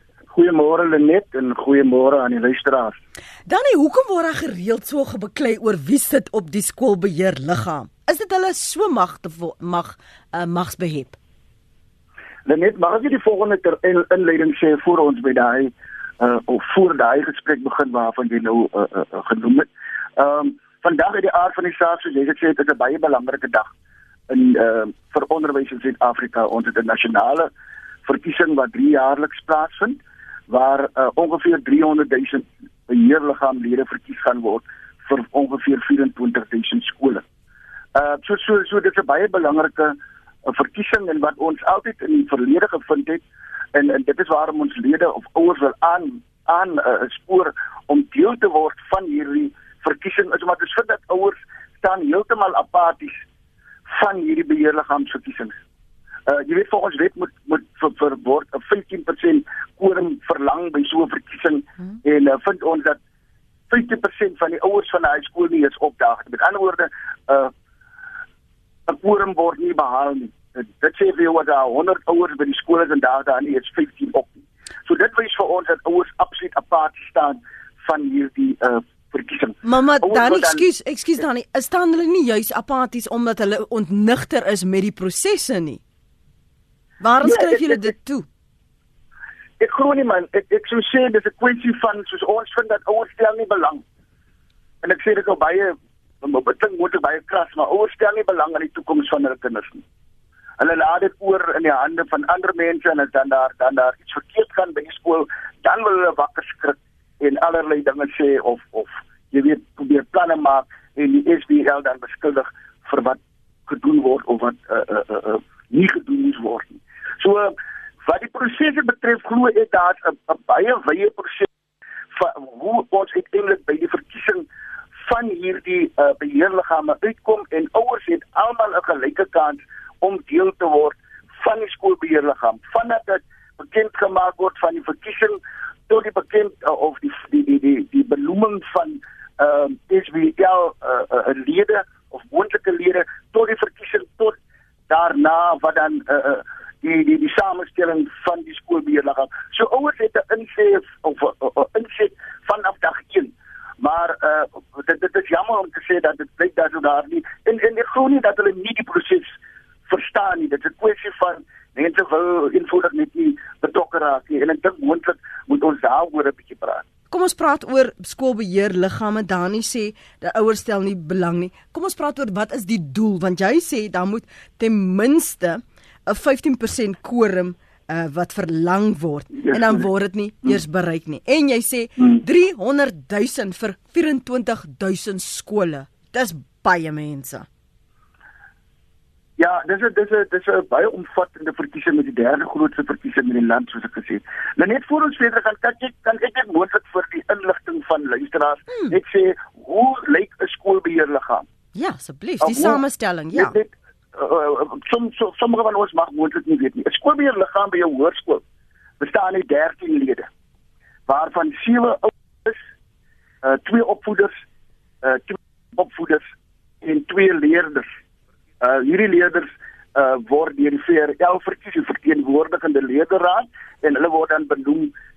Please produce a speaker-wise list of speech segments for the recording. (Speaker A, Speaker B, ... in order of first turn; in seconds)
Speaker A: 0.3-3.0, 12.4-23.7, 24.3-27.5, 28.1-37.2, 37.9-40.0, 40.5-43.2, 43.7-53.2, 53.9-55.5, 56.3-63.0, 63.7-67.5, 68.9-80.6, 87.2-87.8, 89.6-93.8, 94.8-99.8, 100.6-121.5, 122.1-124.4, 125.0-144.3, 144.9-159.3, 159.9-166.8, 189.4-201.4, 202.4-202.8, 203.3-208.4, 209.0-210.3, 211.1-212.6, 213.4-214.3, 215.0-216.3, 216.8-217.9, 218.6-224.9
Speaker B: 3.5-11.2, 79.6-85.8, 87.0-88.3, 167.1-187.4, 201.7-203.5